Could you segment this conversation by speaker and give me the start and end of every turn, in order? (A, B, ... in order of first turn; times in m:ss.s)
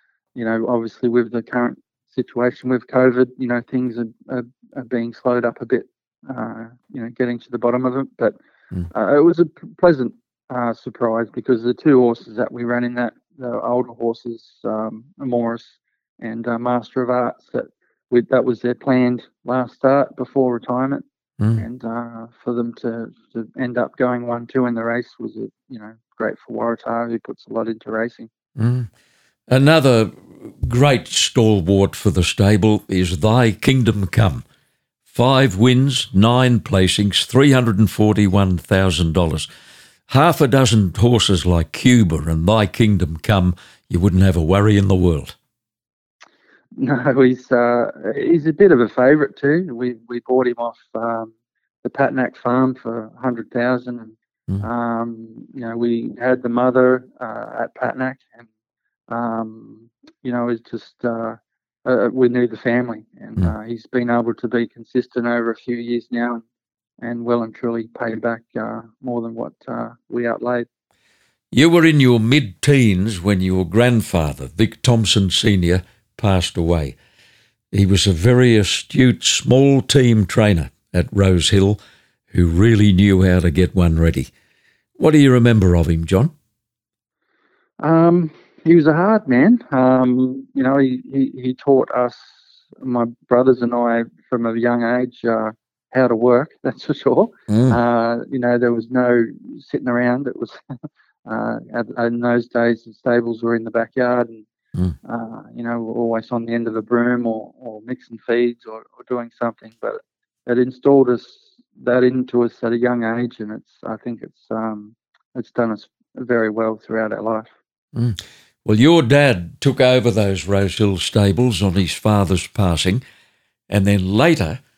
0:00.4-0:08.4 A
0:08.9-0:21.0 A
0:21.6-0:28.3 A
0:28.6-0:28.9 B
0:29.5-0:34.4 B
0:35.1-0:39.5 B
0:40.1-0:45.4 B
0:46.8-0:51.3 A
0:51.8-0:58.5 A
0:59.1-1:06.4 A
1:07.0-1:10.7 A
1:11.5-1:17.0 B
1:17.7-1:21.8 B
1:22.3-1:24.3 B
1:25.0-1:26.3 B
1:27.8-1:40.6 A
1:37.5-1:37.8 B
1:41.3-1:44.4 A
1:45.0-1:57.5 A
1:57.9-2:03.0 B
2:03.7-2:04.6 B